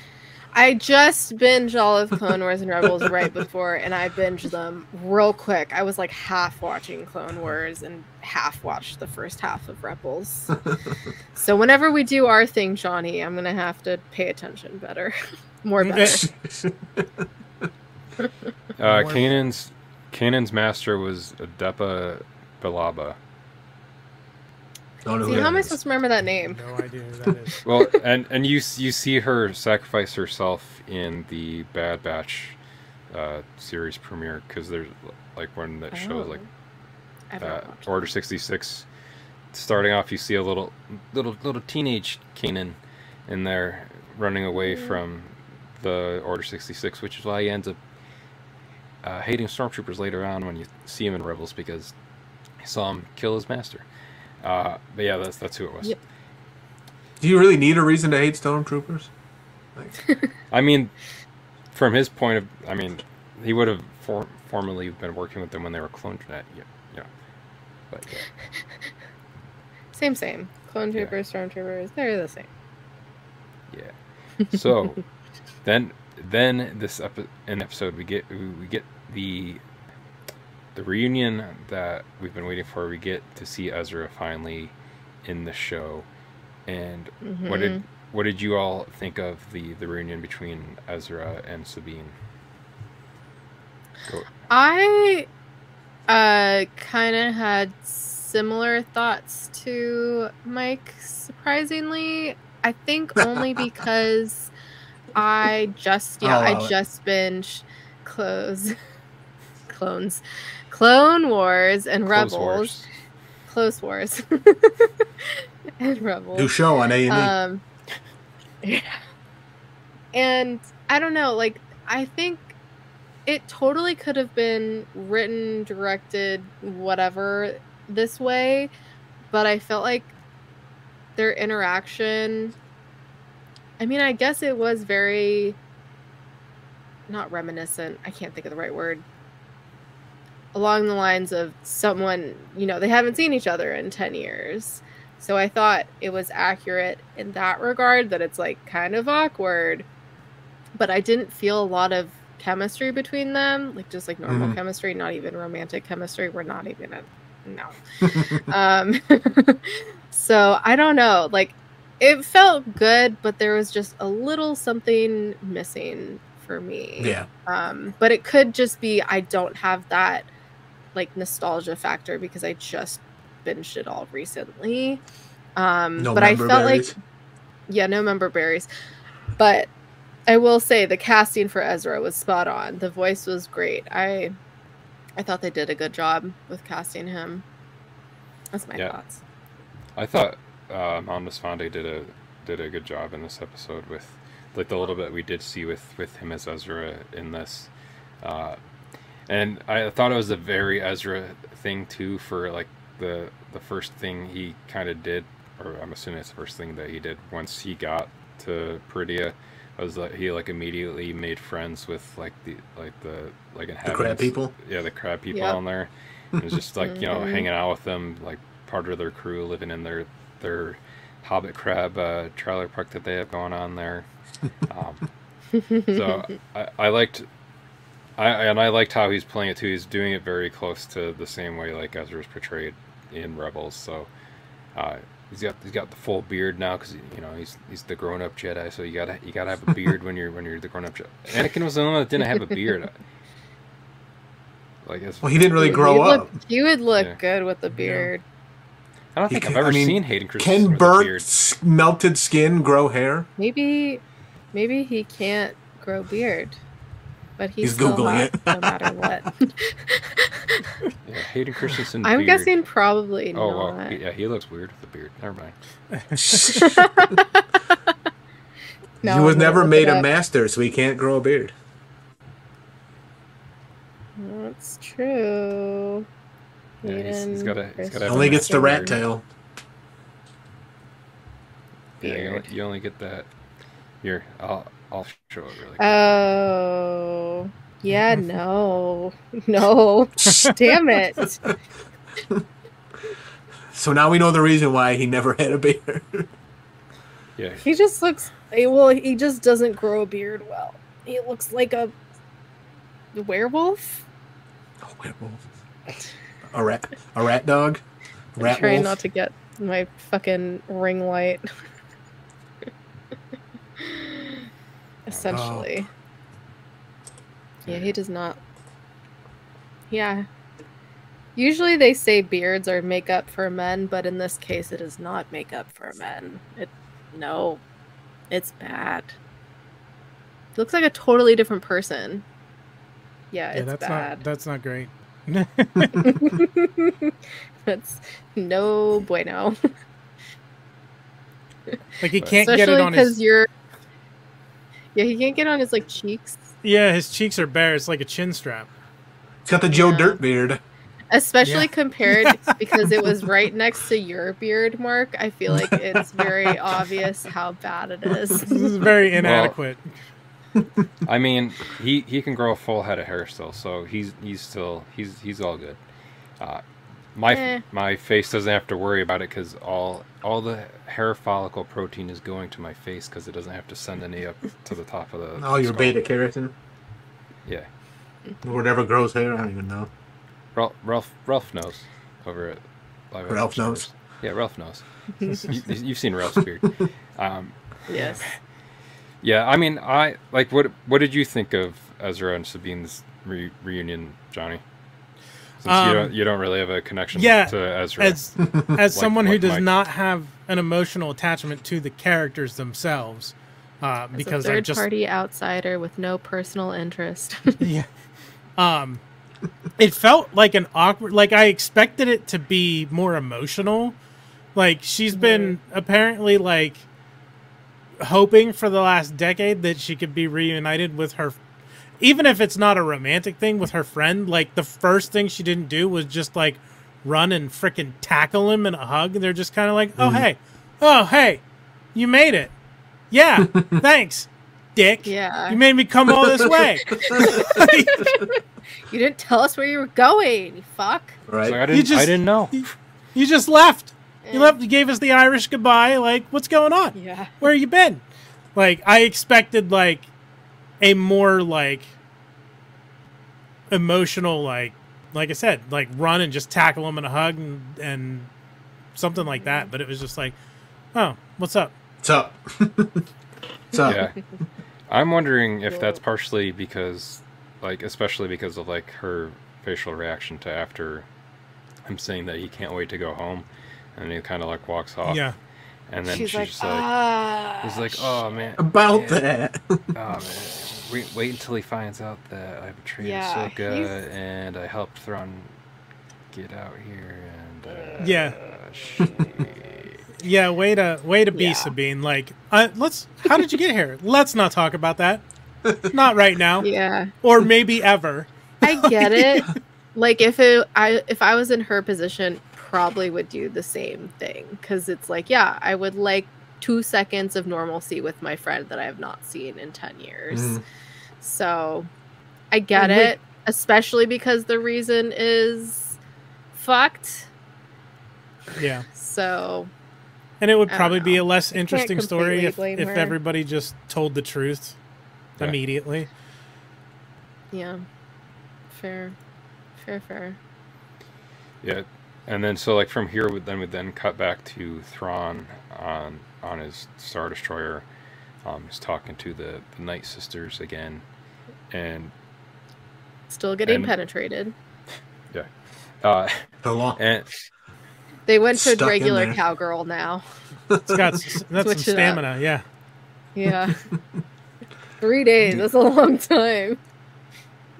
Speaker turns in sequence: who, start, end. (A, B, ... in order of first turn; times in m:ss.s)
0:00.5-0:10.6 A
0:11.4-0:16.2 A
0:15.8-0:16.2 B
0:16.0-0:17.3 C
0:18.8-0:23.2 D
0:18.8-0:19.5 B
0:25.0-0:25.8 C
0:25.2-0:26.6 A
0:26.5-0:27.6 B
0:27.6-0:32.6 D
0:33.1-0:36.4 D
0:35.9-0:36.5 A
0:37.3-0:37.9 A
0:37.4-0:38.9 D
0:39.5-0:47.8 D
0:44.6-0:45.0 A
0:49.0-0:51.9 D
0:52.6-0:53.8 D
0:54.4-0:56.0 D
0:57.2-0:59.1 C
1:00.5-1:00.9 D
1:01.7-1:07.1 D
1:07.9-1:08.3 D
1:09.9-1:12.5 A
1:13.7-1:15.0 D
1:15.6-1:19.6 D
1:20.8-1:26.1 D
1:26.7-1:32.2 D
1:27.2-1:27.8 A
1:34.0-1:34.3 D
1:34.5-1:35.3 A
1:36.1-1:44.5 A
1:43.2-1:43.6 C
1:45.2-1:48.8 A
1:46.2-1:46.7 C
1:49.7-1:52.7 A
1:52.1-1:52.9 D
1:53.5-1:56.6 A
1:56.4-1:57.3 C
1:57.1-1:57.6 A
1:58.6-1:59.0 A
2:00.1-2:02.6 A
2:03.3-2:08.7 A
2:09.3-2:10.1 A
2:11.2-2:12.6 A
2:13.8-2:15.6 A
2:17.1-2:19.0 A
2:20.5-2:29.9 A
2:30.8-2:50.3 A
2:34.3-2:34.6 C
2:38.0-2:38.4 C
2:47.0-2:47.3 C
2:51.0-2:55.0 A
2:55.6-2:57.0 A
2:56.0-2:57.0 C
2:57.7-2:58.7 A
2:59.4-2:59.7 A
3:00.3-3:04.4 A
3:05.2-3:07.4 A
3:08.5-3:09.2 A
3:10.0-3:17.7 D
3:18.2-3:18.6 D
3:19.3-3:44.1 D
3:33.8-3:34.5 C
3:36.8-3:37.5 A
3:44.7-3:45.1 D
3:45.6-3:46.0 A
3:45.9-3:47.3 D
3:48.2-3:54.1 D
3:54.8-4:03.0 D
4:04.8-4:06.0 D
4:05.2-4:06.3 C
4:05.6-4:08.2 A
4:09.2-4:11.3 D
4:09.3-4:13.3 C
4:13.4-4:14.0 A
4:14.5-4:16.6 A
4:17.4-4:20.9 A
4:17.6-4:19.1 C
4:21.0-4:22.5 D
4:22.0-4:24.0 A
4:23.3-4:25.6 D
4:25.9-4:26.6 B
4:26.2-4:27.0 C
4:26.5-4:27.9 A
4:29.0-4:30.1 A
4:29.0-4:31.5 C
4:34.2-4:36.1 A
4:36.8-4:39.0 A
4:36.8-4:38.9 D
4:38.0-4:39.2 C
4:42.0-4:43.3 D
4:42.0-4:42.5 A
4:44.0-4:46.1 D
4:45.8-4:51.4 A
4:51.2-4:51.5 C
4:53.7-4:56.3 C
4:57.4-4:57.6 D
4:57.6-5:01.9 A
5:03.1-5:04.0 A
5:04.8-5:05.4 C
5:06.5-5:07.8 C
5:08.4-5:09.0 C
5:08.4-5:11.5 A
5:13.8-5:14.5 A
5:15.1-5:15.9 A
5:15.3-5:15.7 C
5:17.6-5:17.9 D
5:17.7-5:18.4 A
5:19.9-5:20.3 A
5:21.4-5:27.6 A
5:28.3-5:29.2 A
5:30.6-5:32.2 A
5:33.3-5:34.2 A
5:33.5-5:36.3 B
5:36.0-5:37.1 A
5:37.7-5:39.6 A
5:42.0-5:43.2 B
5:42.2-5:42.5 D
5:42.4-5:43.5 A
5:45.0-5:46.4 A
5:46.6-5:48.7 B
5:49.4-5:50.6 C
5:49.7-5:50.2 A
5:51.1-5:58.7 A
5:51.4-5:53.0 B
5:55.5-5:56.6 C
5:58.4-5:59.9 B
5:59.2-5:59.6 D
6:01.0-6:05.8 D
6:06.4-6:16.0 D
6:07.3-6:07.6 A
6:15.4-6:16.5 C
6:18.4-6:19.9 C
6:20.6-6:24.8 D
6:23.3-6:23.8 C
6:25.4-6:28.4 D
6:27.9-6:28.3 A
6:27.9-6:28.2 B
6:29.2-6:34.6 D
6:35.6-6:39.7 D
6:35.6-6:36.1 B
6:37.1-6:44.9 B
6:44.1-6:47.6 A
6:47.6-6:47.9 B
6:48.6-6:49.0 B
6:49.8-6:54.0 B
6:54.6-6:56.8 B
6:55.1-6:55.6 A
6:58.0-7:01.4 B
7:02.0-7:12.5 B
7:10.0-7:10.2 C
7:13.1-7:18.1 B
7:13.4-7:13.8 C
7:15.1-7:15.6 A
7:16.1-7:17.4 C
7:16.9-7:21.2 A
7:21.3-7:21.6 C
7:21.4-7:22.7 D
7:21.7-7:28.0 B
7:24.2-7:24.6 A
7:27.0-7:27.4 A
7:28.6-7:30.1 B
7:30.8-7:31.9 B
7:33.7-7:38.3 B
7:39.0-7:40.4 B
7:39.4-7:39.7 A
7:40.9-7:41.7 B
7:42.0-7:43.0 C
7:43.7-7:44.0 C
7:43.8-7:44.2 D
7:44.9-7:51.1 D
7:51.8-7:55.3 D
7:55.1-7:55.4 B
7:55.9-7:56.9 D
7:56.1-7:58.0 A
7:57.6-7:59.2 D
7:58.6-7:59.9 C
7:59.9-8:05.5 D
8:03.0-8:03.9 A
8:06.3-8:10.0 D
8:08.0-8:08.4 B
8:09.0-8:09.5 A
8:10.2-8:15.2 B
8:11.3-8:11.7 A
8:15.6-8:15.9 C
8:15.9-8:18.3 B
8:16.6-8:17.1 A
8:18.6-8:30.6 A
8:18.8-8:19.6 C
8:30.3-8:30.6 C
8:31.2-8:31.9 A
8:32.5-8:36.0 A
8:32.8-8:33.1 B
8:36.5-8:37.3 A
8:38.6-8:38.9 B
8:38.9-8:39.7 A
8:40.4-8:44.8 B
8:40.7-8:43.2 A
8:45.4-8:46.1 B
8:47.5-8:47.8 A
8:48.7-8:49.2 A
8:49.8-8:50.4 A
8:51.6-8:57.8 D
8:58.4-9:01.0 D
9:01.7-9:02.1 D
9:03.3-9:04.6 A
9:03.7-9:03.9 D
9:06.0-9:06.5 D
9:06.6-9:07.0 C
9:07.0-9:07.3 D
9:08.3-9:10.2 A
9:08.5-9:09.4 C
9:10.7-9:11.1 C
9:10.9-9:12.6 B
9:11.6-9:12.2 A
9:13.4-9:13.8 A
9:13.5-9:14.2 C
9:15.0-9:16.8 A